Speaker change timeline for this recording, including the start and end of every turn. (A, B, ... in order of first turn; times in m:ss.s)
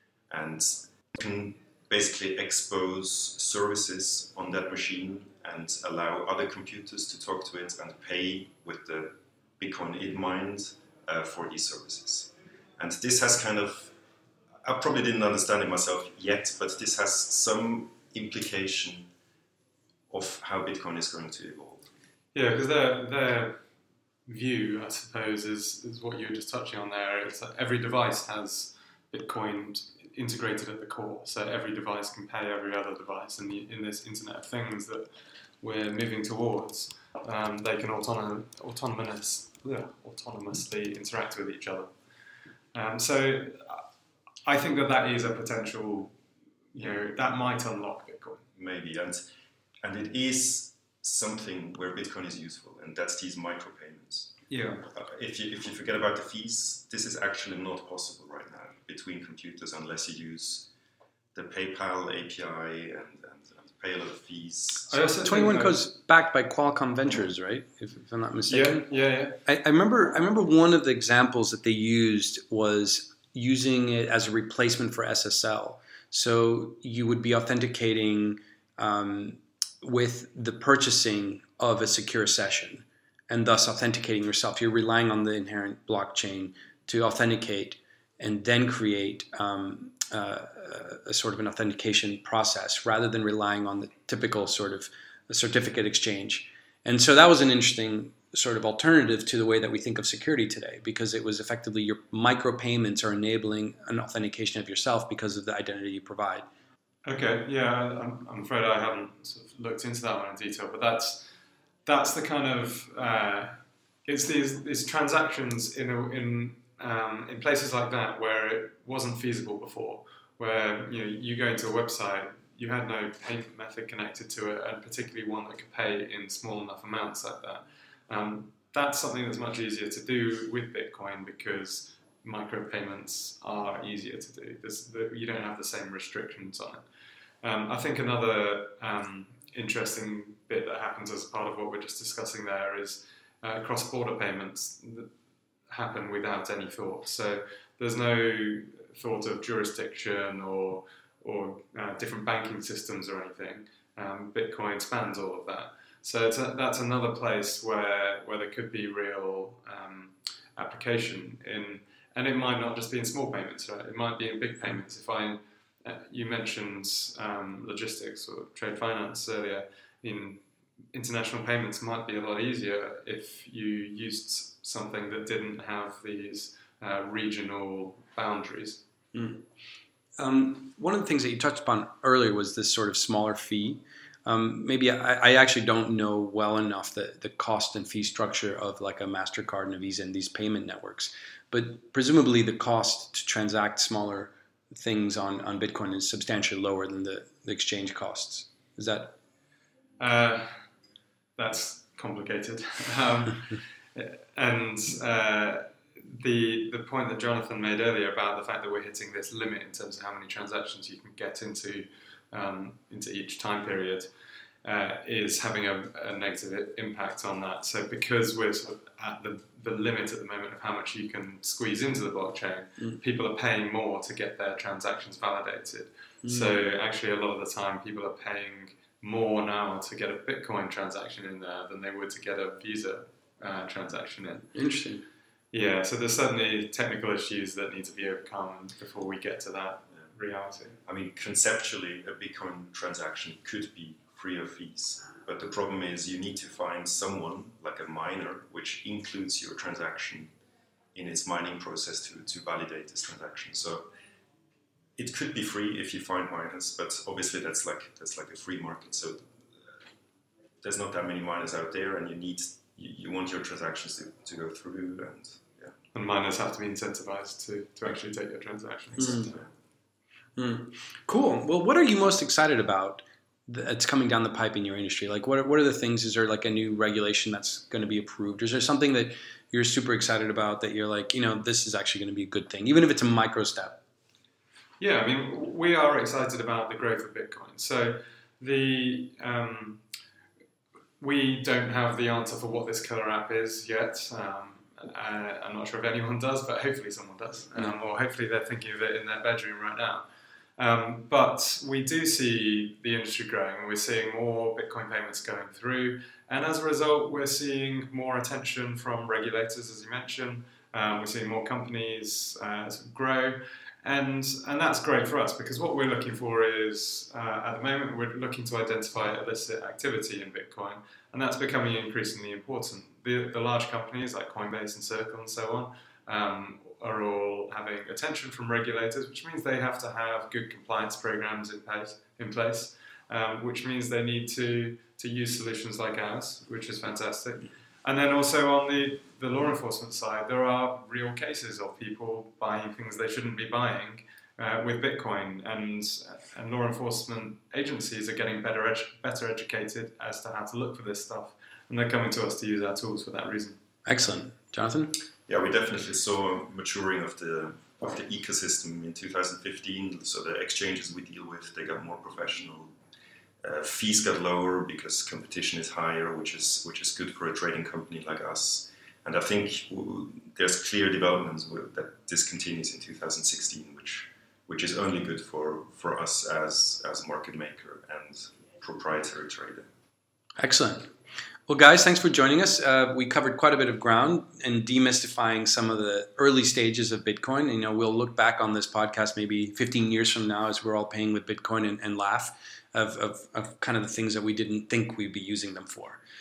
0:00.3-0:13.9 A
0:14.6-0:19.1 A
0:20.1-0:21.9 A
0:22.3-0:23.6 B
0:24.2-0:35.1 B
0:35.6-0:42.2 B
0:42.7-0:43.8 B
0:44.4-0:46.1 B
0:46.7-0:48.4 B
0:48.5-0:49.2 A
0:49.8-1:00.7 A
0:54.5-0:54.8 B
1:01.3-1:05.0 A
1:04.9-1:05.8 B
1:05.2-1:08.9 C
1:08.5-1:09.4 B
1:09.4-1:46.5 C
1:47.0-1:51.3 B
1:51.8-2:16.8 B
2:17.4-2:25.1 B
2:25.7-2:50.4 B
2:50.9-2:58.8 B
2:59.1-2:59.4 C
3:00.2-3:19.2 C
3:20.0-3:20.6 B
3:21.4-3:34.1 B
3:34.6-3:54.5 B
3:46.2-3:46.6 C
3:54.5-3:55.0 C
3:55.5-4:00.8 B
4:00.8-4:10.3 A
4:10.9-4:13.9 A
4:15.0-4:19.7 A
4:20.6-4:25.7 A
4:25.9-4:29.4 B
4:29.0-4:29.3 C
4:29.1-4:29.5 A
4:30.4-4:43.8 C
4:44.8-4:49.8 B
4:51.0-5:00.0 B
5:00.6-5:53.6 B
5:53.8-5:55.0 C
5:55.3-6:02.7 A
6:03.4-6:19.7 A
6:20.4-6:20.9 C
6:21.5-6:36.0 C